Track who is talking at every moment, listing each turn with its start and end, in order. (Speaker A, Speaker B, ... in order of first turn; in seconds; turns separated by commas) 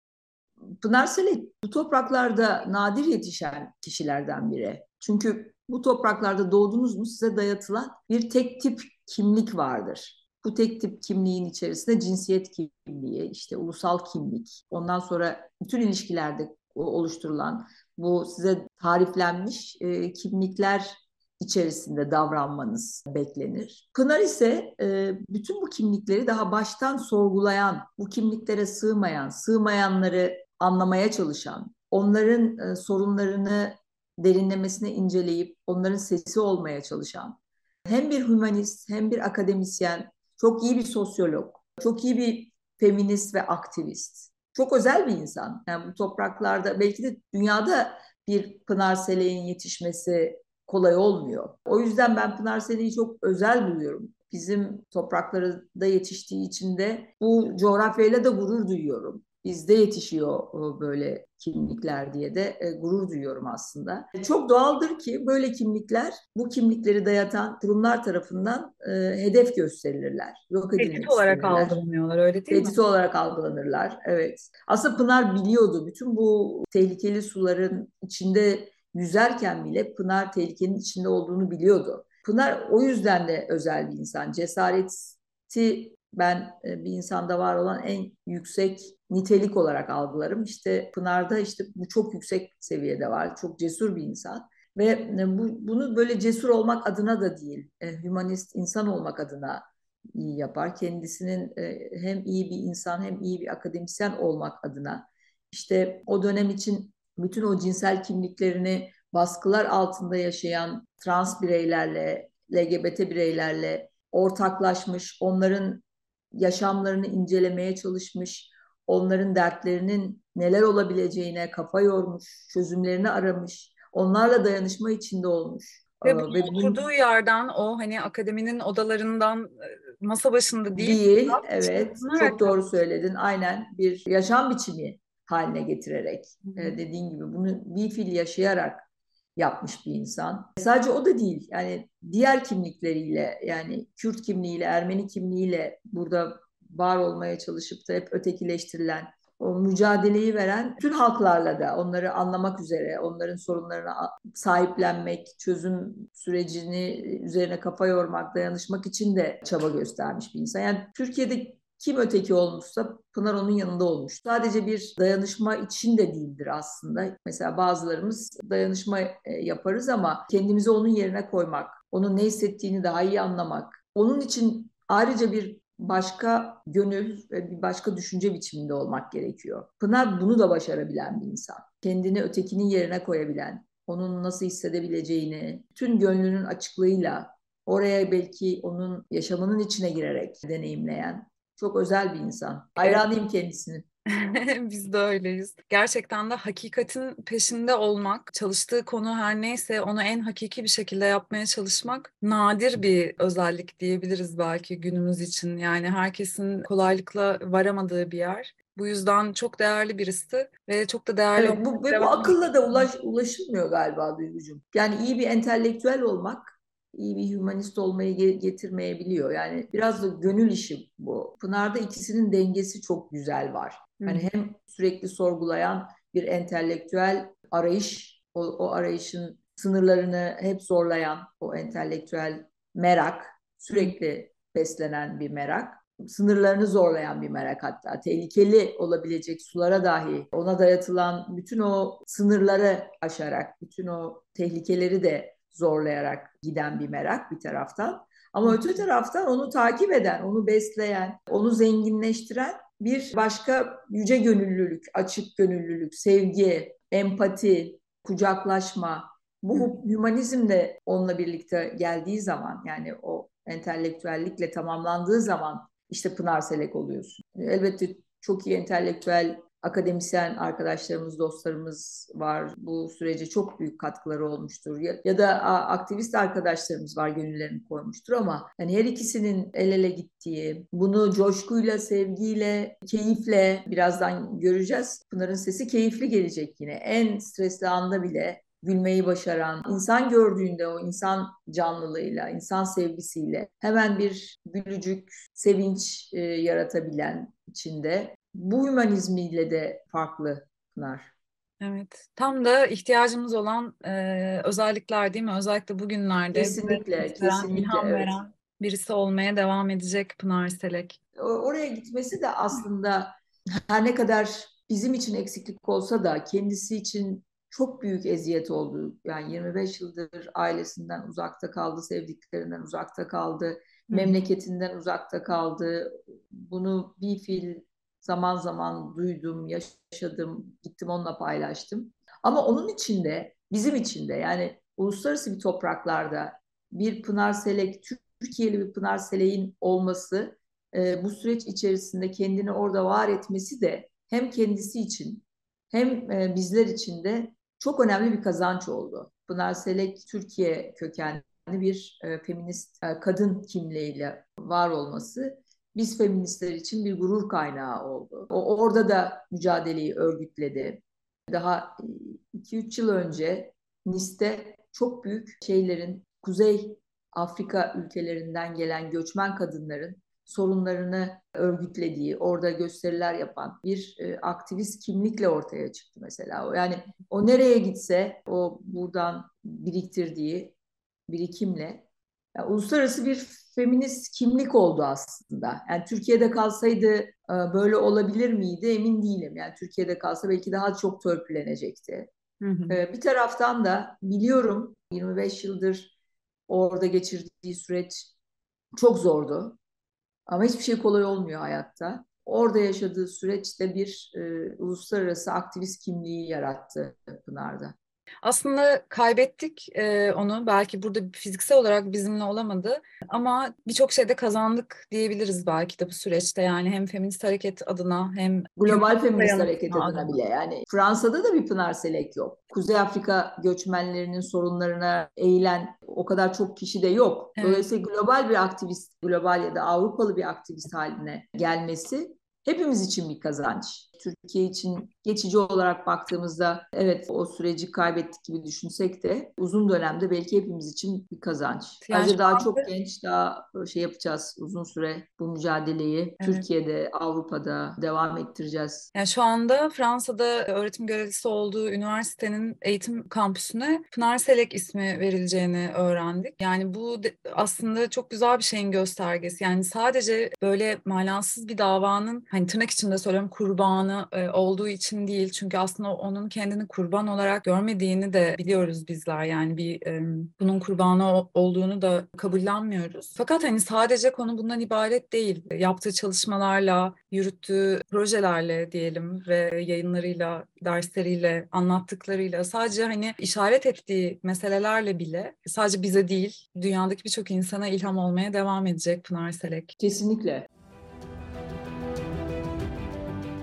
Speaker A: 0.8-71.8, Speaker B: 70.8-72.8, Speaker A: 72.5-126.8, Speaker B: 126.0-132.6, Speaker A: 130.7-138.8, Speaker B: 136.4-136.8, Speaker A: 139.4-193.9, Speaker B: 192.8-193.0, Speaker B: 194.1-212.8, Speaker A: 211.4-301.1, Speaker B: 224.0-224.2, Speaker B: 248.4-248.8, Speaker B: 301.6-311.0, Speaker A: 306.3-308.1, Speaker A: 311.1-380.5, Speaker B: 323.9-324.1, Speaker A: 381.1-392.1, Speaker B: 392.4-392.8, Speaker A: 392.7-395.9, Speaker A: 396.5-398.1, Speaker A: 398.7-399.6, Speaker A: 400.3-407.7, Speaker B: 408.2-420.2, Speaker A: 418.6-448.9, Speaker B: 427.4-427.7, Speaker B: 441.9-442.7, Speaker B: 446.2-446.4, Speaker B: 448.9-489.7, Speaker A: 489.8-490.4